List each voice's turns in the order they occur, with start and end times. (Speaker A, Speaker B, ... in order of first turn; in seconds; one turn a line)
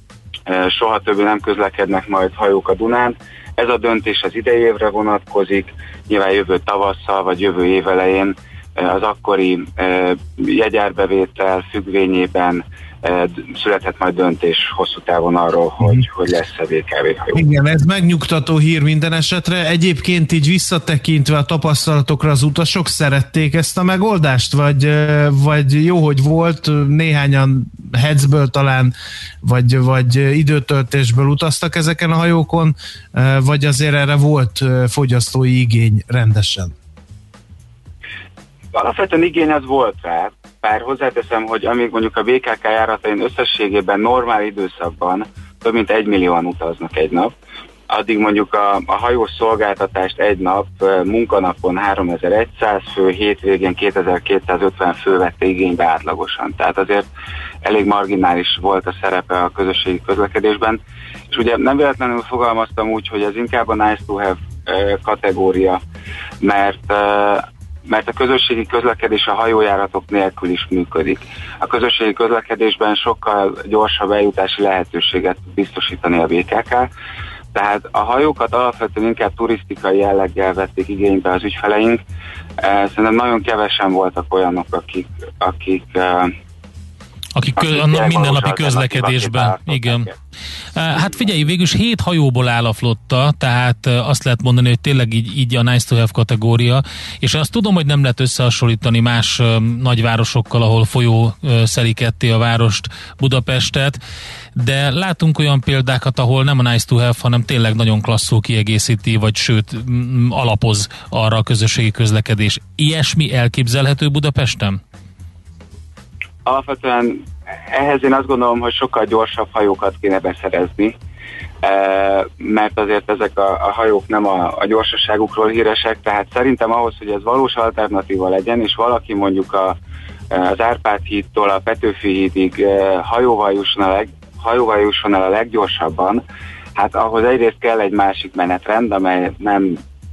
Speaker A: 0.5-17.4
Speaker B: 17.3-36.7
Speaker A: 38.7-47.3
Speaker A: 47.9-57.1
Speaker A: 57.6-60.8
Speaker A: 61.3-65.8
Speaker A: 66.4-76.9
Speaker A: 77.5-82.0
Speaker A: 82.6-86.3
Speaker C: 87.3-90.1
Speaker A: 87.6-90.1
Speaker C: 90.7-104.0
Speaker C: 104.5-114.8
Speaker A: 116.4-120.9
Speaker A: 121.6-129.8
Speaker A: 130.3-136.2
Speaker A: 136.8-139.8